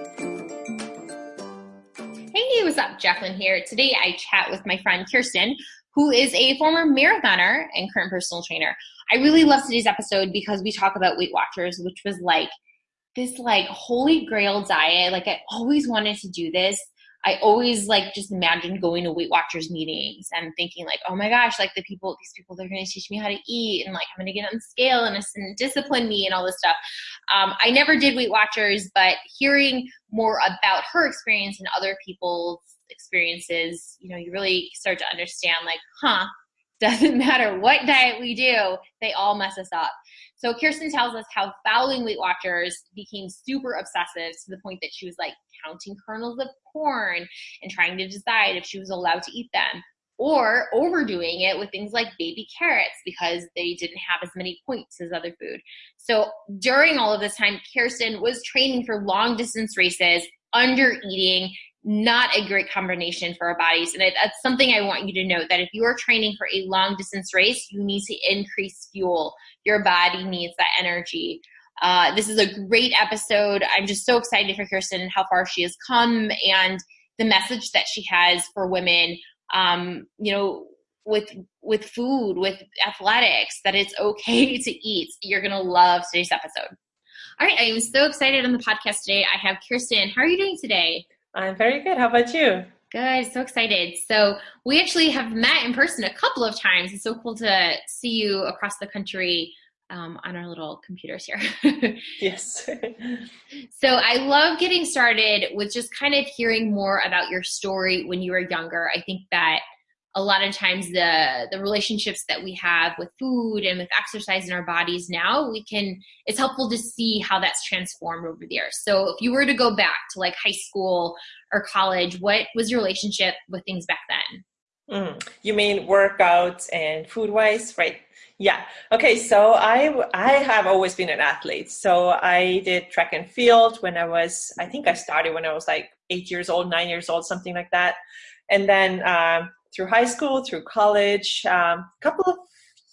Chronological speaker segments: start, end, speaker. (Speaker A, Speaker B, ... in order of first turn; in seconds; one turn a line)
Speaker A: 2.3-12.5
Speaker A: 13.2-26.8
Speaker A: 27.3-86.7
Speaker A: 87.4-91.1
Speaker B: 91.3-92.7
Speaker A: 92.9-102.1
Speaker B: 102.2-103.2
Speaker A: 103.7-109.6
Speaker A: 110.1-124.4
Speaker B: 124.9-138.0
Speaker B: 138.5-142.4